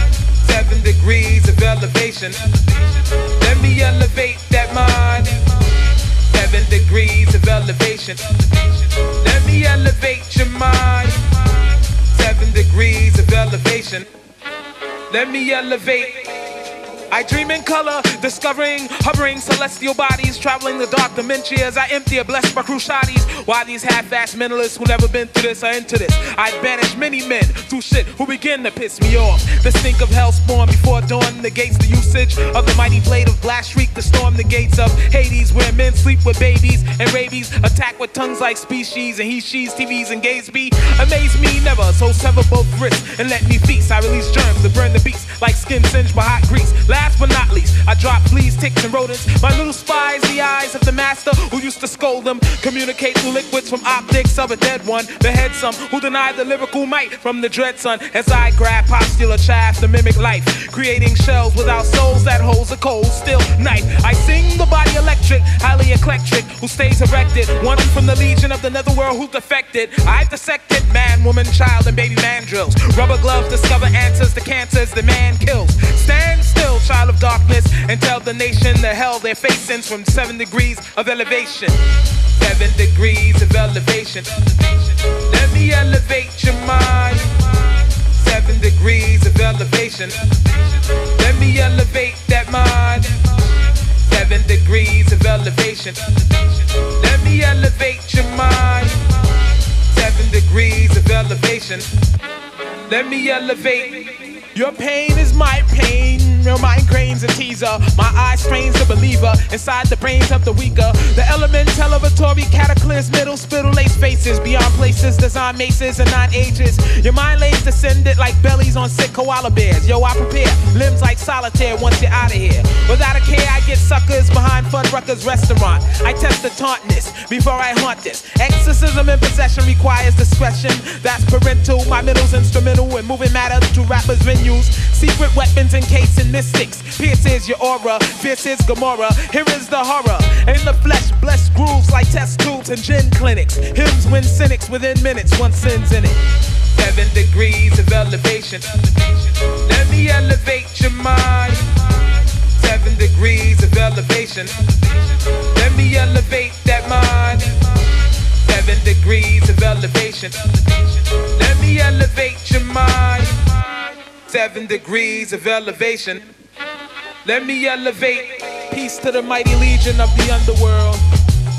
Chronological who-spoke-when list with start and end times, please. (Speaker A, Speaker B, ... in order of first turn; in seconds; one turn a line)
Speaker A: 0.4-14.1
Speaker A: 15.1-16.4
Speaker A: 17.1-81.8
Speaker A: 82.3-101.9
Speaker A: 102.9-146.2
Speaker A: 146.7-166.3
Speaker A: 167.2-171.1